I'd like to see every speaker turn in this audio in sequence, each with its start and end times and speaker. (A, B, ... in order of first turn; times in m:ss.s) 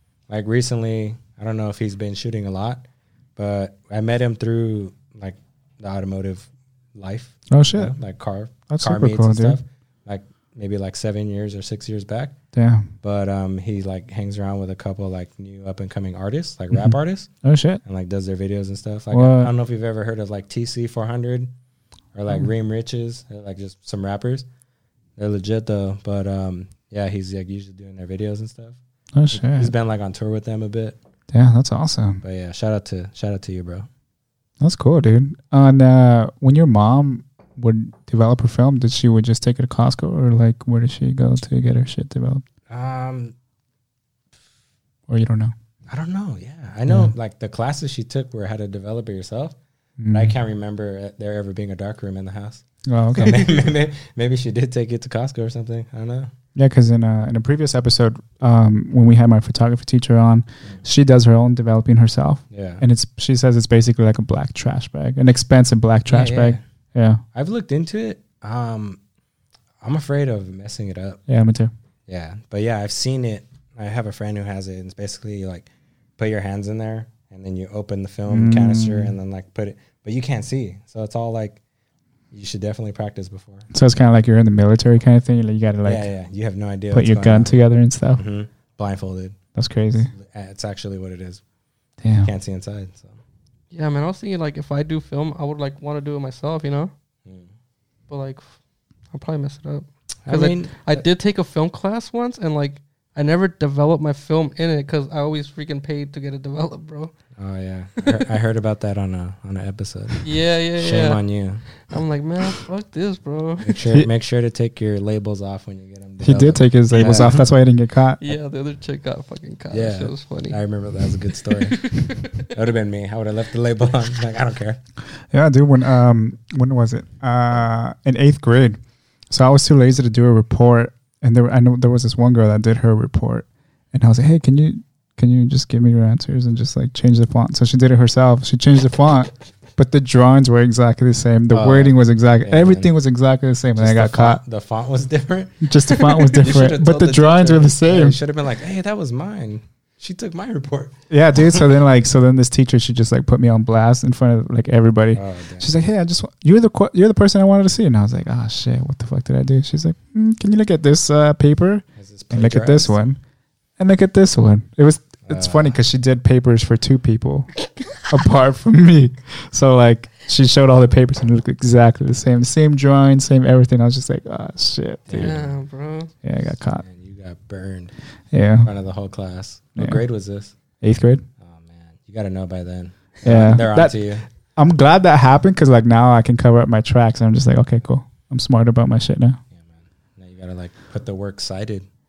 0:00.3-0:12.4 A
0:07.5-0:08.0 B
0:08.7-0:09.6 B
0:12.5-0:12.9 B
0:13.0-0:17.3 A
0:16.7-0:17.8 B
0:17.8-0:21.5 A
0:19.1-0:19.5 B
0:22.1-0:24.5 A
0:25.2-0:28.8 A
0:29.1-0:29.7 B
0:29.3-0:31.0 A
0:31.3-0:32.2 B
0:32.2-0:33.9 A
0:34.6-0:42.4 B
0:42.7-0:43.3 A
0:45.1-0:45.5 B
0:45.9-0:49.6 A
0:50.0-0:50.3 B
0:50.1-0:56.3 A
0:52.9-0:53.5 B
0:56.6-1:07.2 B
1:02.5-1:02.8 A
1:06.0-1:06.6 A
1:07.3-1:09.0 A
1:09.8-1:11.2 A
1:11.3-1:11.7 B
1:12.1-1:21.6 A
1:18.3-1:19.1 B
1:22.3-1:23.7 A
1:23.7-1:26.1 B
1:25.8-1:27.6 A
1:26.9-1:28.2 B
1:28.1-1:29.4 A
1:29.5-1:30.1 B
1:29.9-1:31.4 A
1:32.0-1:32.3 B
1:32.2-1:33.2 A
1:33.7-1:36.9 C
1:38.1-1:38.6 C
1:39.1-1:47.1 C
1:40.2-1:41.0 A
1:47.4-1:50.2 A
1:50.2-1:51.2 C
1:50.8-1:51.6 A
1:51.7-1:53.8 C
1:53.6-1:57.5 A
1:56.2-1:58.2 B
1:58.2-2:00.6 C
1:59.7-2:01.8 A
2:01.4-2:02.5 C
2:02.4-2:04.8 A
2:05.3-2:08.8 B
2:09.3-2:24.4 B
2:21.5-2:22.9 A
2:23.8-2:31.7 A
2:25.6-2:28.2 B
2:31.1-2:43.2 B
2:35.1-2:35.7 A
2:42.0-2:43.1 A
2:43.8-2:55.4 B
2:45.2-2:45.8 A
2:55.1-2:55.5 A
2:55.1-2:56.1 C
2:56.2-2:56.8 B
2:56.8-2:57.9 A
2:58.3-2:58.7 B
2:58.6-3:00.5 A
3:00.8-3:01.2 B
3:01.4-3:04.2 A
3:03.2-3:04.0 B
3:04.5-3:09.4 B
3:09.5-3:11.9 A